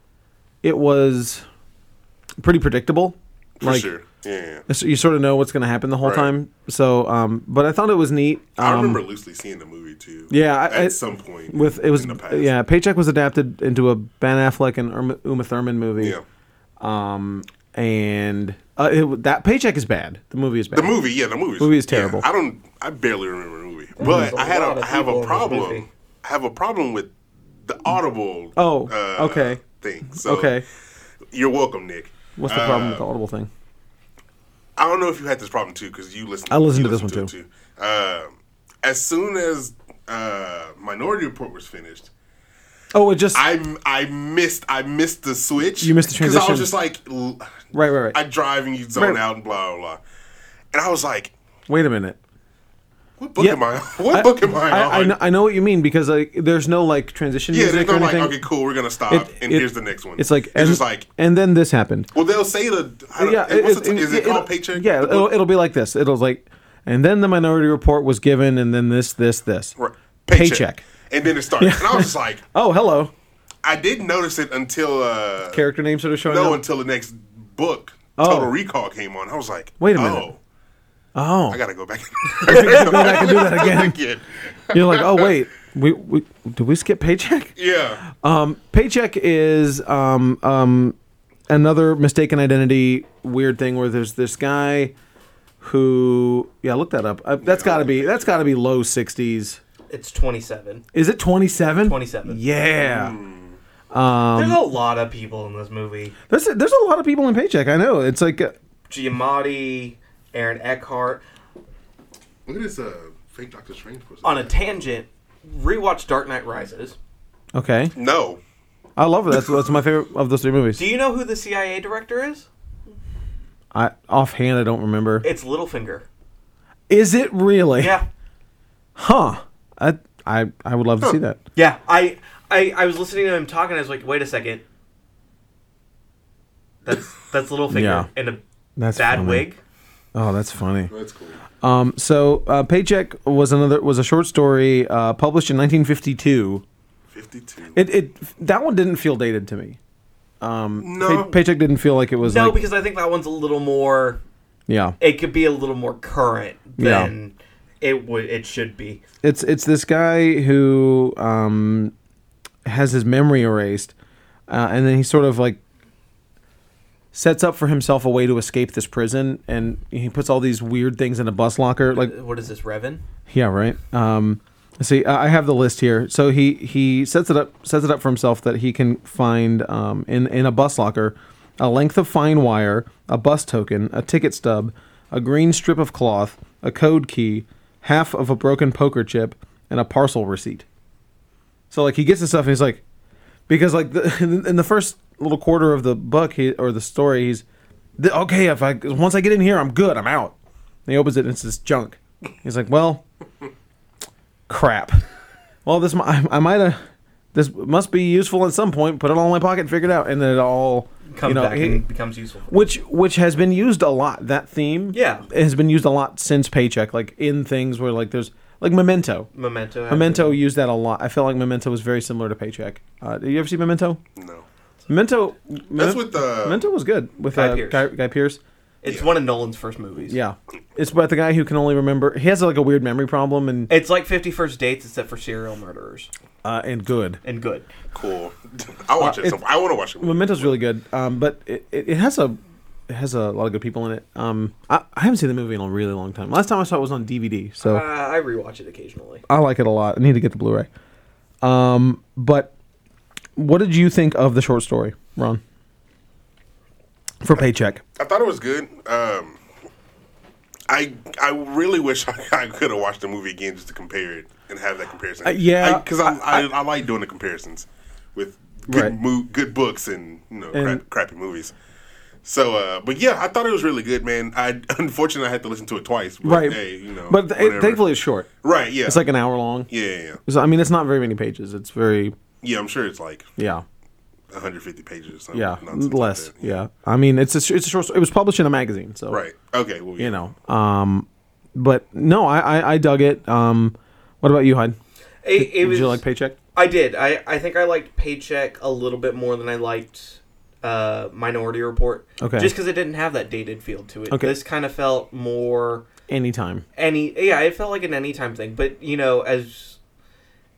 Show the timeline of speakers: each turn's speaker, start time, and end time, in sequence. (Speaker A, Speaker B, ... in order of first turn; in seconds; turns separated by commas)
Speaker A: 0.6-1.5, Speaker A: 2.4-3.9, Speaker B: 3.6-4.7, Speaker A: 4.7-9.0, Speaker B: 6.0-6.3, Speaker B: 8.6-12.5, Speaker A: 10.3-16.2, Speaker B: 16.0-16.2, Speaker A: 16.8-21.0, Speaker B: 20.7-27.1, Speaker A: 21.6-22.3, Speaker C: 24.0-25.9, Speaker A: 24.0-24.3, Speaker B: 27.6-30.6, Speaker A: 28.6-30.6, Speaker B: 31.3-33.0, Speaker A: 32.4-33.5, Speaker B: 34.8-42.1, Speaker A: 36.5-37.3, Speaker A: 42.9-43.4, Speaker B: 43.3-50.0, Speaker A: 45.8-46.7, Speaker A: 47.7-48.2, Speaker A: 49.0-49.2, Speaker B: 50.7-51.3, Speaker A: 51.7-52.2, Speaker B: 53.2-55.2, Speaker A: 53.4-58.4, Speaker B: 57.5-61.1, Speaker A: 59.1-62.1, Speaker B: 62.1-65.3, Speaker A: 63.2-69.7, Speaker B: 69.8-72.4, Speaker A: 70.3-70.8, Speaker A: 71.6-73.1, Speaker B: 73.6-75.6, Speaker A: 75.5-76.6, Speaker B: 76.2-80.4, Speaker A: 78.2-78.5, Speaker A: 79.8-80.3, Speaker A: 81.2-81.6, Speaker B: 81.5-85.3, Speaker A: 82.4-84.0, Speaker A: 84.7-91.0, Speaker B: 87.6-88.0, Speaker A: 91.5-94.9, Speaker A: 95.6-99.6, Speaker B: 97.4-98.4, Speaker C: 99.9-100.8, Speaker A: 100.9-103.2, Speaker C: 101.7-102.4, Speaker B: 102.8-103.6, Speaker A: 103.9-104.6, Speaker C: 104.3-106.2, Speaker A: 106.3-108.5, Speaker C: 108.9-111.2, Speaker B: 112.5-114.7, Speaker C: 114.2-117.0, Speaker A: 117.5-117.9, Speaker B: 118.0-118.4, Speaker A: 119.0-120.8, Speaker C: 120.8-122.5, Speaker A: 123.7-125.3, Speaker C: 125.2-126.1, Speaker A: 126.9-128.0, Speaker C: 127.8-128.1, Speaker A: 129.0-131.4, Speaker C: 131.6-134.6, Speaker C: 136.8-138.4, Speaker A: 137.7-138.1, Speaker A: 138.8-139.5, Speaker C: 138.9-139.6, Speaker A: 140.1-140.9, Speaker B: 140.9-141.4, Speaker A: 141.6-146.6, Speaker B: 147.1-147.8, Speaker A: 147.7-149.8, Speaker A: 150.4-152.6, Speaker B: 150.8-151.3, Speaker C: 152.2-154.2, Speaker A: 154.7-155.0, Speaker C: 155.0-159.0, Speaker A: 156.8-157.1, Speaker A: 159.2-161.9, Speaker A: 162.7-163.9, Speaker A: 164.5-165.6, Speaker A: 167.1-172.2, Speaker C: 171.9-173.0, Speaker A: 173.3-190.7, Speaker A: 191.7-192.8, Speaker A: 193.5-197.4, Speaker A: 198.0-200.3, Speaker A: 200.9-203.0, Speaker A: 204.5-205.0, Speaker A: 205.7-206.8, Speaker A: 207.3-211.8, Speaker C: 211.1-212.6, Speaker A: 212.5-219.3, Speaker C: 214.9-215.3, Speaker C: 219.3-220.4, Speaker A: 219.9-224.0, Speaker B: 224.2-224.4, Speaker A: 224.9-228.4, Speaker B: 225.8-226.7, Speaker C: 227.3-227.9, Speaker C: 228.8-230.2, Speaker A: 230.1-233.7, Speaker C: 233.7-236.1, Speaker A: 236.4-237.2, Speaker C: 237.2-237.7, Speaker B: 237.9-240.6, Speaker A: 239.0-239.4, Speaker A: 240.0-242.4, Speaker A: 242.9-247.8, Speaker C: 247.6-249.2, Speaker A: 249.3-250.7, Speaker A: 251.4-252.5, Speaker A: 253.4-255.4, Speaker A: 257.2-257.8, Speaker B: 258.0-259.4, Speaker B: 260.7-271.5, Speaker A: 265.2-266.5, Speaker A: 268.7-269.0, Speaker A: 270.5-270.8, Speaker B: 272.2-277.8, Speaker A: 276.2-278.3, Speaker B: 278.4-279.0, Speaker A: 278.9-279.7, Speaker B: 279.7-280.2, Speaker A: 280.3-282.1, Speaker B: 282.4-283.3, Speaker A: 283.4-283.6, Speaker B: 284.3-286.6, Speaker A: 285.3-289.2, Speaker B: 289.1-290.2, Speaker A: 290.0-294.8, Speaker C: 295.2-296.0, Speaker A: 295.4-296.4, Speaker C: 296.5-305.9, Speaker A: 302.2-302.5, Speaker A: 304.1-304.4, Speaker A: 306.1-306.6, Speaker C: 306.8-309.8